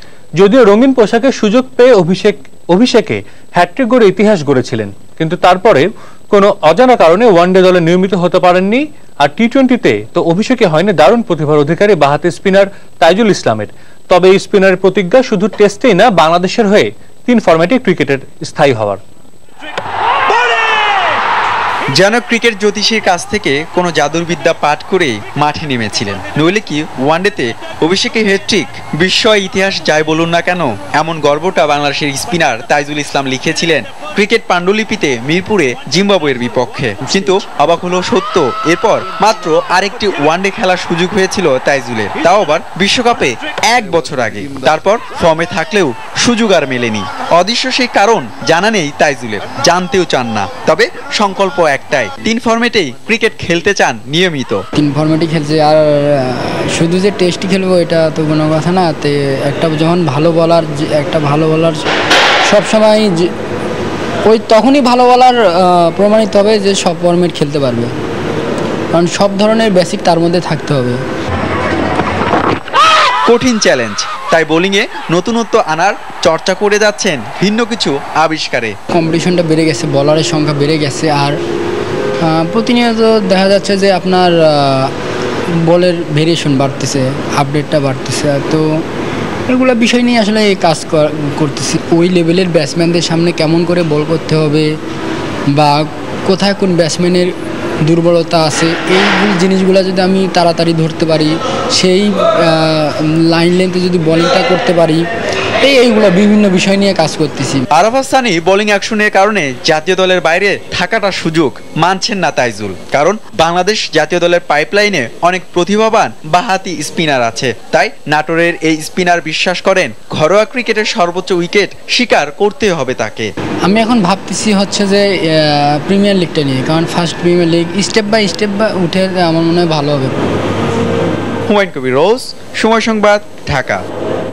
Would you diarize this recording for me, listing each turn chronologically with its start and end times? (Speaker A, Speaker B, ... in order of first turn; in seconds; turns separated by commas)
Speaker A: 0.4-19.0, Speaker B: 21.9-54.6, Speaker C: 54.8-61.8, Speaker C: 62.5-63.3, Speaker C: 64.3-67.9, Speaker C: 68.9-71.0, Speaker B: 73.3-78.8, Speaker C: 78.9-81.4, Speaker C: 82.2-84.9, Speaker C: 85.7-88.6, Speaker C: 89.5-94.7, Speaker C: 95.6-97.3, Speaker C: 97.9-105.0, Speaker C: 105.6-107.6, Speaker B: 107.7-123.3, Speaker C: 123.7-130.2, Speaker B: 131.5-133.8